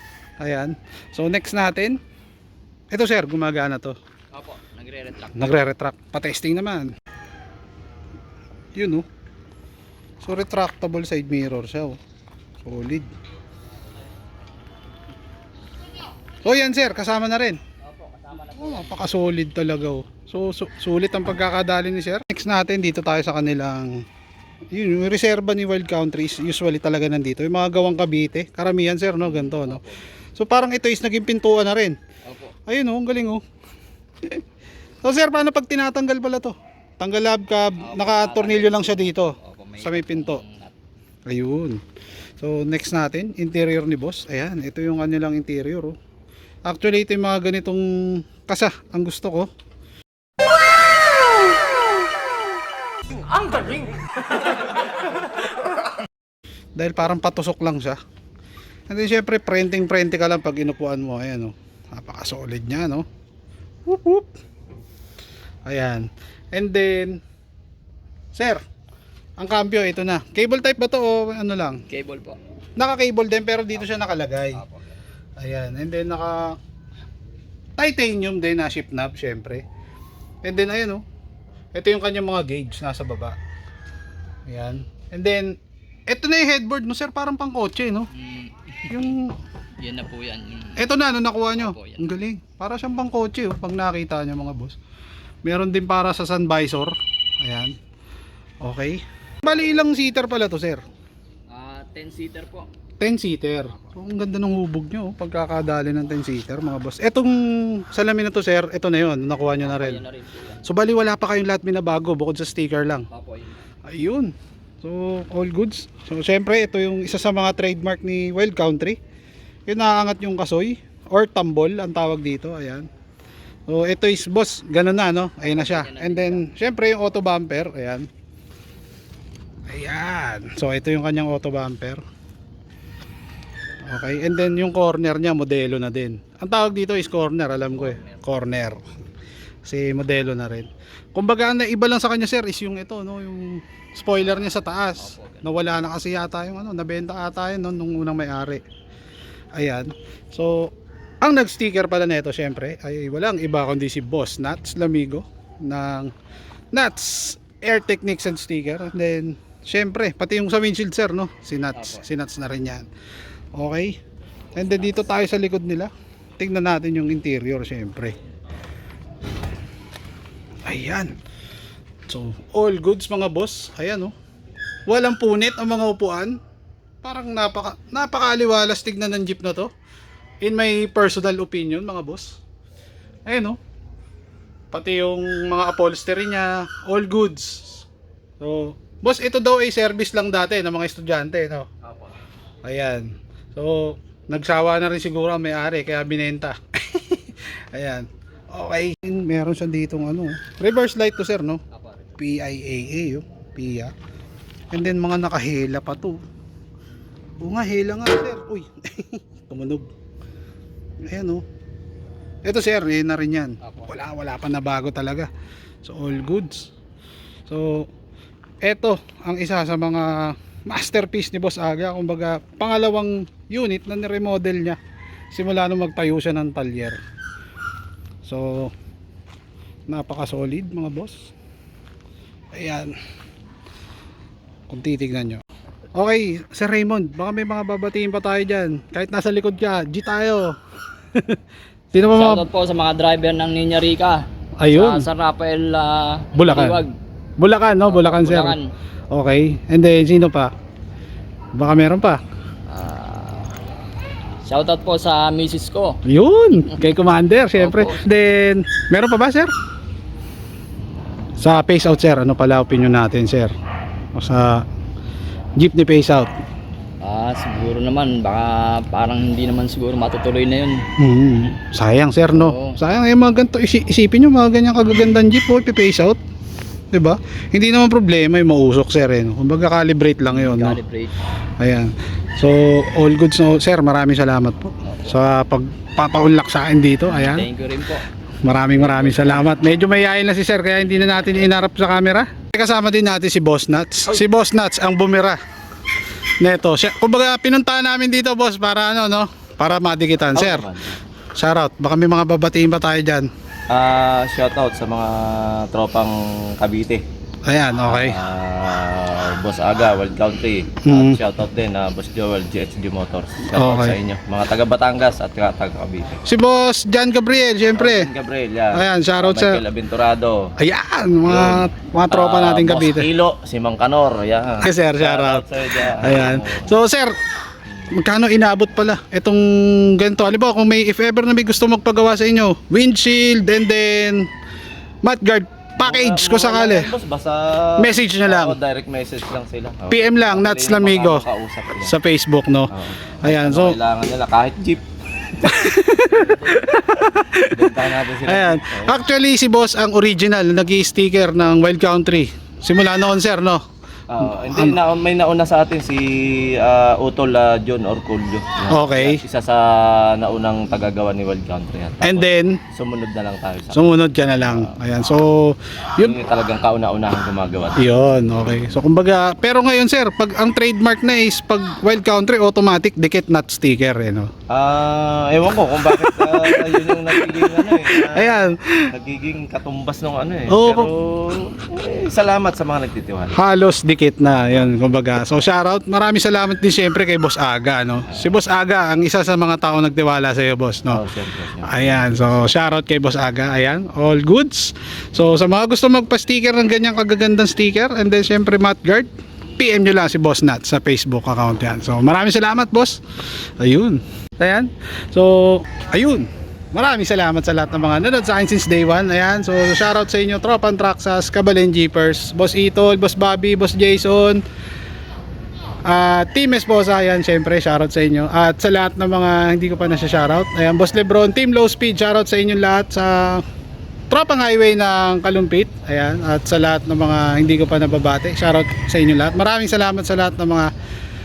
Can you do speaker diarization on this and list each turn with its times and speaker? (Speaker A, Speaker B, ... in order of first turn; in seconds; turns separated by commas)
Speaker A: 0.4-2.0, Speaker A: 2.9-3.9, Speaker B: 4.3-5.6, Speaker A: 5.3-6.9, Speaker A: 8.8-9.0, Speaker A: 10.2-12.0, Speaker A: 12.6-13.1, Speaker A: 16.4-17.6, Speaker B: 17.8-19.1, Speaker A: 18.5-24.0, Speaker A: 24.7-29.8, Speaker B: 29.2-30.0, Speaker A: 30.4-32.0, Speaker B: 32.2-32.5, Speaker A: 32.7-33.4, Speaker A: 35.0-40.4, Speaker B: 37.8-40.7, Speaker A: 41.3-41.8, Speaker A: 42.4-45.9, Speaker A: 46.6-49.5, Speaker A: 56.8-58.0, Speaker A: 58.9-63.0, Speaker A: 63.9-64.3, Speaker A: 65.7-67.2, Speaker A: 68.3-68.6, Speaker A: 69.4-71.8, Speaker B: 71.9-72.4, Speaker A: 72.8-74.6, Speaker B: 74.5-74.8, Speaker A: 75.4-76.6, Speaker A: 77.8-79.6, Speaker A: 80.4-81.0, Speaker A: 81.7-83.4, Speaker A: 84.5-85.6, Speaker A: 86.1-88.1, Speaker B: 88.1-89.1, Speaker A: 88.9-89.3, Speaker B: 89.8-90.9, Speaker A: 90.8-94.8, Speaker B: 91.5-92.2, Speaker A: 95.4-97.7, Speaker A: 98.6-100.8, Speaker B: 101.5-102.7, Speaker A: 103.0-110.0, Speaker B: 109.5-110.6, Speaker A: 110.6-113.1, Speaker B: 113.1-113.6, Speaker A: 113.8-119.0, Speaker A: 119.7-122.9, Speaker A: 123.7-128.1, Speaker B: 125.4-126.5, Speaker A: 129.7-132.0, Speaker A: 133.8-138.8, Speaker B: 137.6-138.2, Speaker A: 139.6-148.6, Speaker B: 145.0-145.5, Speaker A: 149.5-156.1, Speaker A: 156.7-162.8, Speaker B: 161.7-162.0, Speaker A: 163.5-164.0, Speaker A: 164.5-168.1, Speaker A: 170.7-171.1, Speaker A: 172.1-174.1, Speaker A: 174.9-176.4, Speaker A: 177.0-179.7, Speaker A: 180.4-182.4, Speaker A: 183.2-183.6, Speaker A: 184.7-187.9, Speaker A: 188.4-191.7, Speaker A: 192.6-201.6, Speaker B: 201.7-202.0, Speaker A: 202.2-203.9, Speaker A: 204.7-206.2, Speaker A: 207.4-209.8, Speaker A: 211.0-211.4, Speaker A: 212.4-215.3, Speaker B: 213.6-213.9, Speaker A: 215.8-216.7, Speaker A: 217.5-217.9, Speaker A: 218.6-224.8, Speaker A: 225.3-227.0, Speaker A: 228.2-228.7, Speaker A: 229.9-231.3, Speaker A: 232.5-232.9, Speaker A: 234.7-235.4, Speaker A: 235.9-240.5, Speaker A: 241.1-241.4, Speaker A: 241.9-242.5, Speaker B: 242.1-246.9, Speaker A: 244.6-245.1, Speaker A: 246.3-246.8, Speaker A: 247.4-248.6, Speaker B: 247.8-248.7, Speaker A: 249.1-250.5, Speaker A: 251.6-252.2, Speaker B: 252.7-253.5, Speaker B: 254.4-256.0, Speaker A: 256.1-259.5, Speaker B: 257.6-258.0, Speaker A: 261.4-263.5, Speaker A: 264.1-264.6, Speaker A: 265.6-266.3, Speaker B: 267.0-270.8, Speaker A: 271.0-276.2, Speaker B: 272.3-272.8, Speaker A: 276.9-280.8, Speaker B: 280.3-281.1, Speaker A: 281.6-287.5, Speaker B: 287.1-288.0, Speaker A: 288.4-295.4, Speaker B: 288.7-289.4, Speaker A: 296.4-300.7, Speaker C: 300.3-300.9, Speaker A: 301.4-303.3, Speaker C: 303.7-307.0, Speaker A: 307.4-308.2, Speaker C: 307.9-316.2, Speaker A: 310.8-311.2, Speaker A: 313.5-314.0, Speaker A: 316.2-318.1, Speaker C: 317.7-320.5, Speaker A: 318.7-319.6, Speaker A: 320.6-323.1, Speaker C: 321.2-326.8, Speaker A: 324.6-327.1, Speaker A: 327.9-334.3, Speaker A: 335.0-336.9, Speaker C: 335.8-341.9, Speaker A: 337.8-338.6, Speaker A: 339.9-341.2, Speaker A: 341.8-343.8, Speaker C: 342.7-345.3, Speaker A: 345.4-353.6, Speaker B: 346.1-346.6, Speaker C: 347.5-349.0, Speaker C: 354.1-364.7, Speaker A: 354.2-354.8, Speaker A: 358.7-359.2, Speaker A: 362.0-362.6, Speaker A: 363.7-366.2, Speaker C: 366.0-368.1, Speaker A: 367.8-374.3, Speaker C: 374.5-383.4, Speaker A: 375.9-378.9, Speaker A: 380.5-380.9, Speaker A: 383.3-391.0, Speaker C: 390.9-392.4, Speaker A: 391.6-403.0, Speaker A: 403.6-414.4, Speaker A: 415.8-423.4, Speaker A: 424.1-430.7